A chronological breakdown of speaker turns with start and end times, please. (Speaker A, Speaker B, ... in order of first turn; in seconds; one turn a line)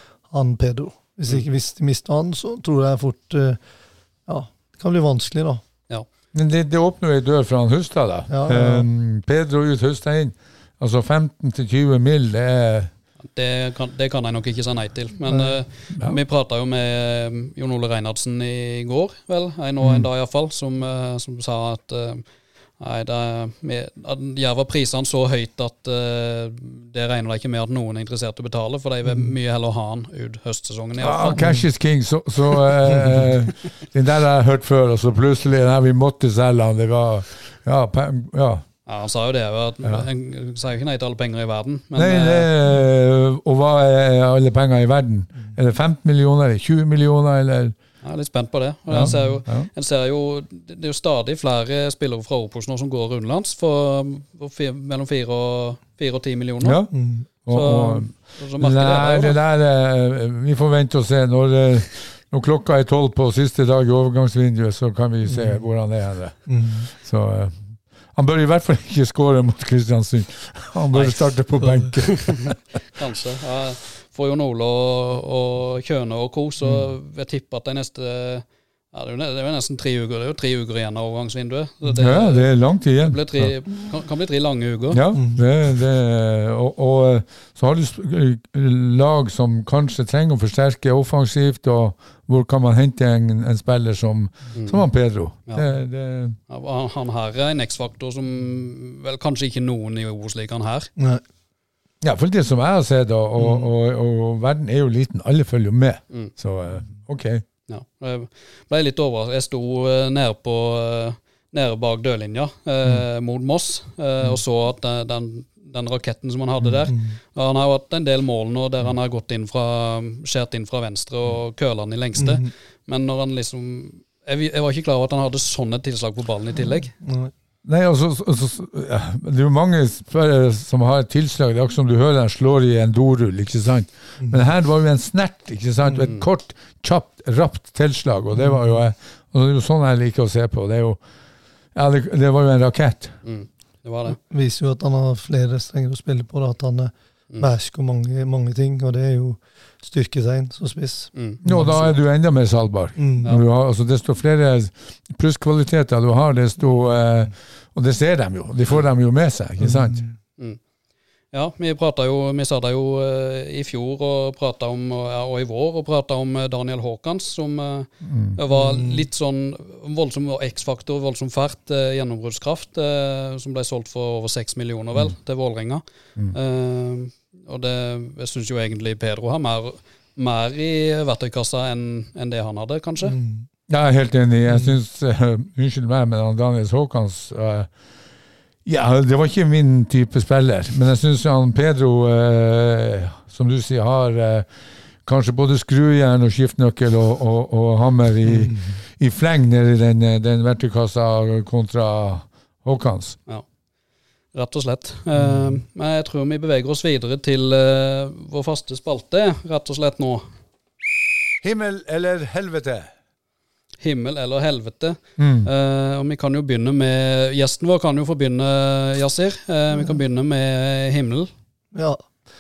Speaker A: 0.3-3.6
Speaker A: 4.3-5.6
Speaker B: 6.3-12.9
Speaker A: 8.3-8.8
Speaker C: 13.3-22.2
Speaker A: 15.3-15.5
Speaker B: 19.8-20.1
Speaker C: 22.8-31.4
Speaker A: 29.0-29.3
Speaker B: 31.0-38.6
Speaker A: 31.4-31.6
Speaker C: 38.9-42.5
Speaker B: 41.9-47.8
Speaker C: 48.0-56.8
Speaker B: 48.9-49.7
Speaker A: 49.0-49.4
Speaker B: 56.6-67.6
Speaker A: 56.9-57.2
Speaker C: 57.5-59.4
Speaker A: 65.3-65.6
Speaker A: 66.5-66.9
Speaker B: 68.1-72.6
Speaker C: 70.9-71.3
Speaker C: 72.0-85.0
Speaker B: 82.0-83.5
Speaker B: 84.9-96.4
Speaker A: 85.1-85.4
Speaker C: 94.5-94.8
Speaker C: 96.5-100.9
Speaker A: 101.0-101.2
Speaker B: 102.0-107.4
Speaker A: 103.4-103.7
Speaker C: 107.7-126.9
Speaker A: 116.9-117.1
Speaker A: 122.2-122.5
Speaker A: 126.9-127.3
Speaker B: 127.6-141.0
Speaker A: 135.8-136.1
Speaker A: 138.3-138.8
Speaker B: 141.7-143.1
Speaker C: 143.2-144.2
Speaker A: 144.2-151.8
Speaker C: 151.1-151.4
Speaker B: 151.4-160.0
Speaker A: 152.9-153.3
Speaker A: 159.6-160.1
Speaker C: 161.3-183.2
Speaker B: 168.0-168.4
Speaker A: 168.5-169.0
Speaker A: 183.0-183.4
Speaker B: 183.7-187.7
Speaker A: 184.5-184.8
Speaker B: 188.6-194.5
Speaker B: 195.0-203.2
Speaker A: 198.2-198.6
Speaker C: 204.3-210.3
Speaker B: 211.4-212.9
Speaker C: 213.8-221.3
Speaker B: 215.2-215.5
Speaker A: 221.7-222.0